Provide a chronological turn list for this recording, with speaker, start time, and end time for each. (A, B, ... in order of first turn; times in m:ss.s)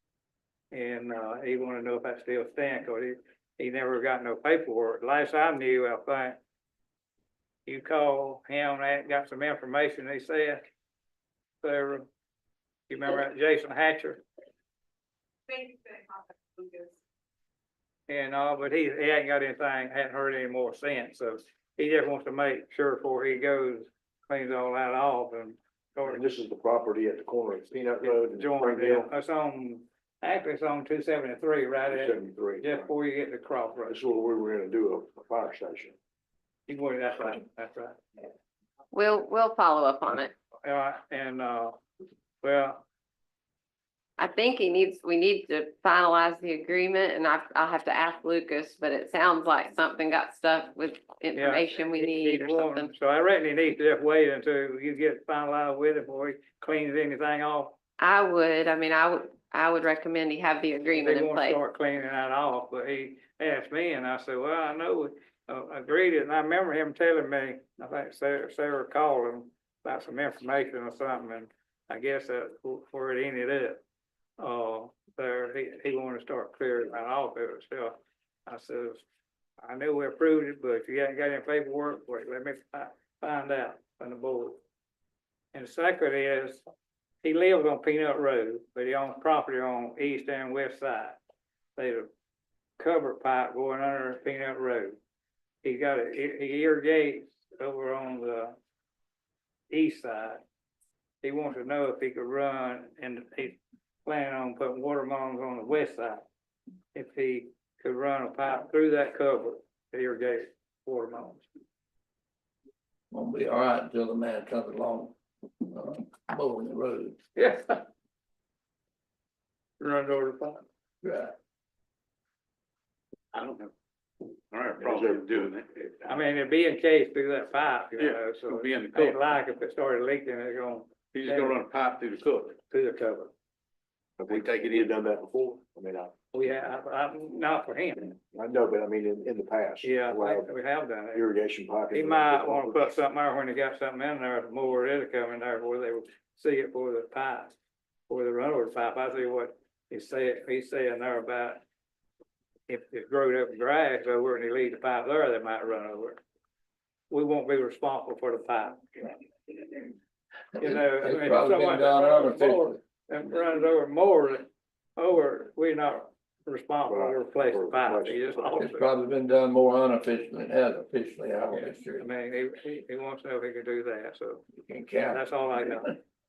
0:00.7-0:06.4 A
0:07.6-0:10.6 A
0:11.6-0:12.1 A
0:12.9-0:14.2 A
0:18.1-0:26.3 A
0:26.1-0:29.1 B
0:28.0-0:34.0 A
0:31.9-0:32.9 B
0:33.8-0:36.0 B
0:36.7-0:38.0 A
0:38.9-0:40.3 C
0:40.6-0:41.8 A
0:42.4-0:42.8 A
0:44.2-0:52.9 C
0:51.3-0:57.8 A
0:58.0-1:01.6 C
1:01.0-1:13.8 A
1:14.4-1:19.0 A
1:19.6-1:24.6 A
1:25.5-1:26.6 A
1:27.2-1:31.2 A
1:31.8-1:32.1 A
1:32.8-1:35.0 A
1:35.6-1:38.6 A
1:39.7-1:40.4 A
1:41.2-1:46.2 A
1:46.9-1:51.5 A
1:53.1-1:57.2 D
1:57.4-1:57.8 A
1:59.8-2:00.6 A
2:01.0-2:01.3 D
2:03.3-2:03.7 E
2:04.5-2:05.9 E
2:04.8-2:05.5 B
2:06.0-2:11.6 A
2:08.0-2:09.2 E
2:11.1-2:12.6 E
2:12.7-2:13.3 A
2:14.2-2:16.1 B
2:14.3-2:14.8 E
2:16.3-2:18.2 A
2:18.3-2:20.5 B
2:19.8-2:21.2 A
2:21.1-2:22.9 B
2:21.9-2:27.6 A
2:28.1-2:31.6 A
2:32.7-2:36.2 A
2:37.1-2:39.2 A
2:40.5-2:42.8 D
2:40.6-2:48.8 A
2:46.9-2:48.6 B
2:48.6-2:52.1 D
2:51.5-2:54.4 A
2:54.7-2:55.2 D
2:55.1-2:56.0 A